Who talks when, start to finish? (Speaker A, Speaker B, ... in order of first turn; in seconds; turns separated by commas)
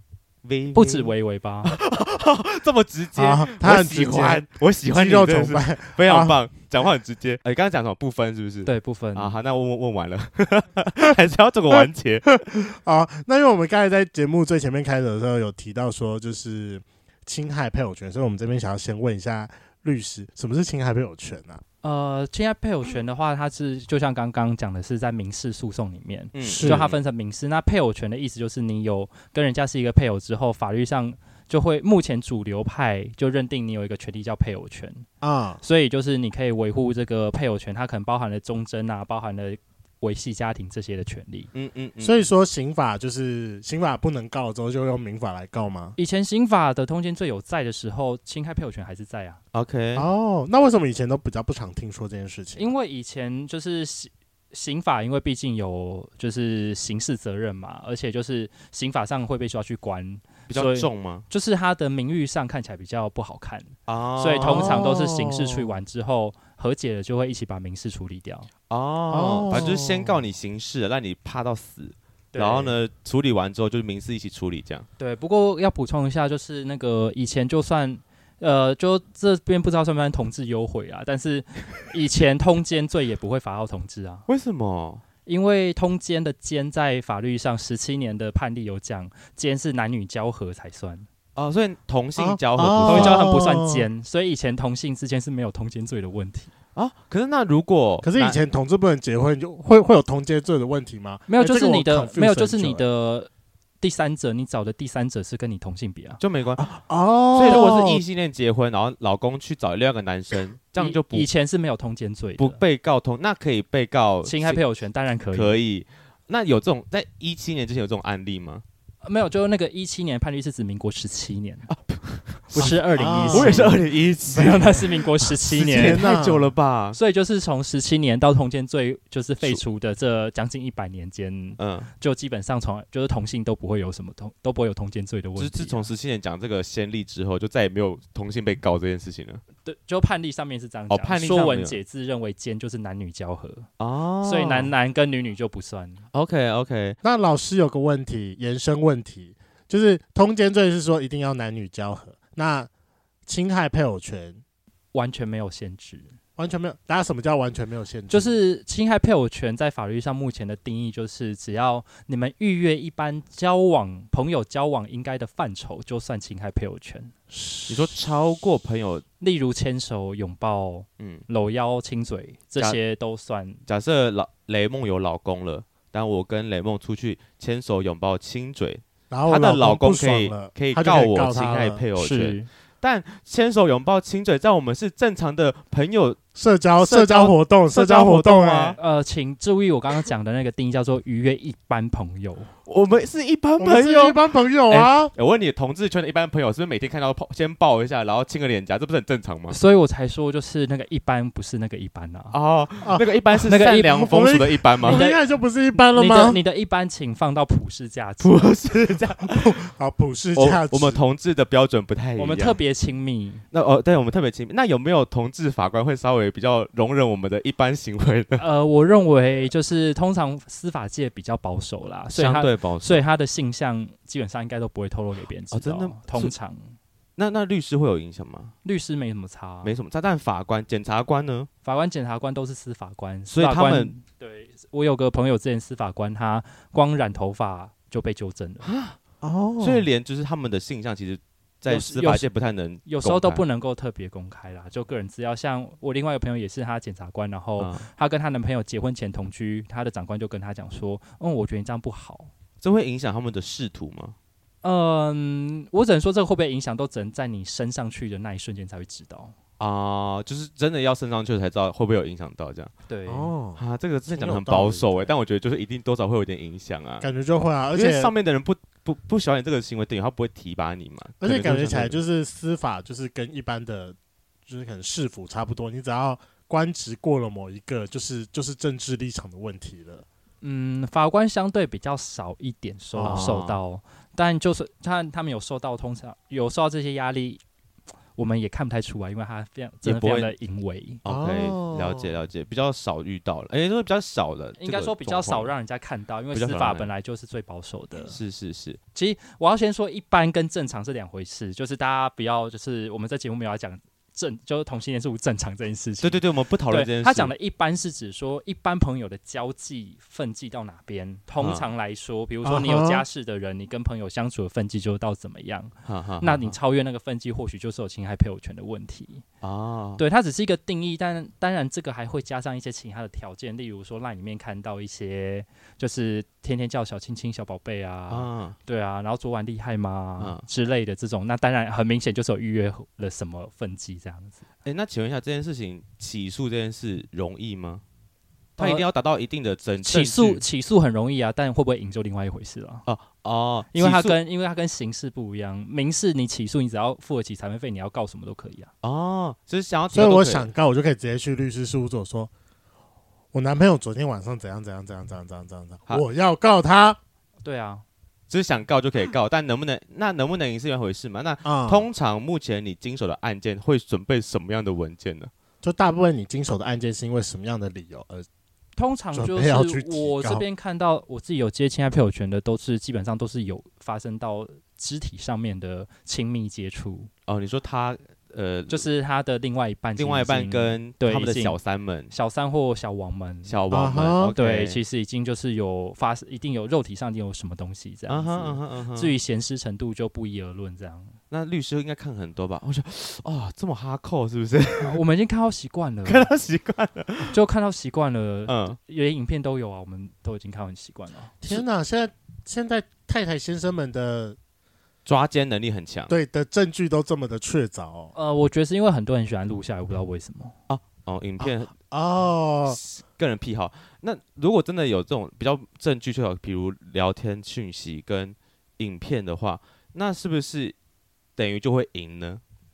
Speaker A: 0.4-1.1, Speaker B: 0.7-1.8, Speaker A: 1.6-12.3, Speaker C: 3.1-6.4, Speaker B: 8.6-9.3, Speaker C: 12.3-21.6, Speaker B: 21.8-35.1, Speaker A: 26.3-27.0, Speaker C: 26.4-26.9, Speaker C: 35.2-35.6, Speaker B: 35.6-41.5, Speaker A: 41.5-42.2, Speaker C: 42.0-46.0, Speaker B: 46.0-49.4, Speaker A: 49.5-50.1, Speaker C: 50.0-52.7, Speaker B: 52.5-68.5, Speaker A: 60.5-61.2, Speaker A: 63.9-64.9, Speaker C: 64.4-65.7, Speaker A: 68.7-74.9, Speaker C: 69.1-70.2, Speaker B: 72.3-72.8, Speaker B: 75.0-84.2, Speaker A: 84.3-85.0, Speaker B: 85.2-91.1, Speaker A: 91.3-93.3, Speaker C: 92.2-93.9, Speaker B: 92.8-96.5, Speaker A: 96.7-98.4, Speaker C: 98.0-102.8, Speaker B: 101.3-103.3, Speaker B: 103.8-106.2, Speaker A: 106.2-106.6, Speaker C: 106.6-108.0, Speaker A: 107.3-111.3, Speaker B: 110.8-112.6, Speaker A: 112.4-114.6, Speaker B: 114.2-115.6, Speaker A: 115.3-118.6, Speaker B: 119.0-121.7, Speaker A: 121.7-122.7, Speaker B: 122.5-126.0, Speaker C: 122.6-123.9, Speaker A: 123.3-124.8, Speaker C: 125.5-126.5, Speaker A: 125.5-127.0, Speaker B: 126.9-135.9, Speaker A: 131.6-131.9, Speaker A: 135.3-139.4, Speaker B: 139.6-143.7, Speaker A: 140.9-141.8, Speaker A: 143.8-144.7, Speaker B: 144.2-146.0, Speaker A: 146.1-147.0, Speaker C: 147.0-152.7, Speaker C: 153.2-154.4, Speaker B: 154.9-156.1, Speaker C: 156.4-158.4, Speaker B: 158.1-167.1, Speaker C: 167.3-168.0, Speaker A: 167.7-169.0, Speaker B: 169.2-173.6, Speaker A: 171.0-171.2, Speaker A: 173.7-186.2, Speaker C: 179.1-181.8, Speaker B: 181.9-182.5, Speaker C: 186.3-188.8, Speaker A: 186.8-188.8, Speaker B: 188.8-192.5, Speaker A: 192.7-199.6, Speaker C: 193.6-195.1, Speaker B: 199.5-202.3, Speaker A: 202.3-205.1, Speaker C: 202.8-203.1, Speaker B: 203.4-204.1, Speaker C: 203.7-206.4, Speaker B: 204.8-205.2, Speaker B: 205.8-208.5, Speaker A: 208.2-209.6, Speaker C: 209.2-211.0, Speaker A: 210.3-212.6, Speaker B: 212.2-213.4, Speaker A: 213.5-218.4, Speaker B: 218.4-226.8, Speaker A: 222.1-223.0, Speaker A: 225.5-226.3, Speaker A: 227.2-228.5, Speaker B: 228.6-229.7, Speaker A: 229.6-231.5, Speaker B: 231.6-238.7, Speaker A: 233.3-233.9, Speaker A: 238.6-239.0, Speaker C: 239.2-239.8, Speaker A: 239.6-243.4, Speaker B: 241.7-242.3, Speaker B: 242.8-252.3, Speaker A: 247.6-247.9, Speaker A: 252.6-254.2, Speaker B: 254.6-259.3, Speaker A: 259.6-262.7, Speaker B: 262.9-263.3, Speaker C: 263.1-265.1, Speaker A: 263.6-267.1, Speaker C: 267.0-268.1, Speaker A: 267.7-272.0, Speaker C: 271.2-273.9, Speaker C: 274.5-280.0, Speaker B: 280.4-287.4, Speaker C: 282.9-283.3, Speaker A: 283.0-283.6, Speaker B: 288.1-291.0, Speaker A: 289.8-290.3, Speaker A: 291.0-295.5, Speaker C: 291.1-292.1, Speaker B: 294.6-298.2, Speaker A: 296.3-296.9, Speaker A: 298.0-298.8, Speaker B: 298.9-319.2, Speaker A: 306.0-307.3, Speaker A: 311.4-311.7, Speaker C: 312.4-313.0, Speaker A: 315.8-316.6, Speaker A: 319.4-320.0, Speaker B: 320.0-334.4, Speaker A: 328.1-328.6, Speaker A: 330.2-330.4, Speaker A: 334.6-337.8, Speaker A: 338.6-340.4, Speaker B: 338.6-338.9, Speaker B: 339.8-342.8, Speaker A: 342.9-344.2, Speaker B: 343.7-348.7, Speaker A: 348.8-350.5, Speaker C: 349.9-352.3, Speaker C: 353.3-357.0, Speaker B: 357.4-357.8, Speaker A: 358.3-365.3, Speaker C: 361.4-361.9, Speaker C: 365.6-368.2, Speaker B: 368.8-377.1, Speaker C: 369.1-370.4, Speaker A: 377.2-378.9, Speaker B: 378.7-381.6, Speaker A: 380.0-382.1, Speaker B: 382.1-383.6, Speaker A: 383.4-384.8, Speaker C: 383.7-384.3, Speaker B: 384.3-391.1, Speaker A: 388.1-389.1, Speaker A: 391.3-395.0, Speaker B: 394.8-396.3, Speaker A: 396.0-397.4, Speaker B: 397.3-401.3, Speaker A: 398.5-398.8, Speaker C: 401.4-404.4, Speaker A: 405.0-406.1, Speaker C: 406.1-408.1, Speaker B: 408.1-410.5, Speaker A: 410.7-411.7, Speaker C: 411.4-412.8, Speaker A: 412.6-420.8, Speaker A: 421.4-422.4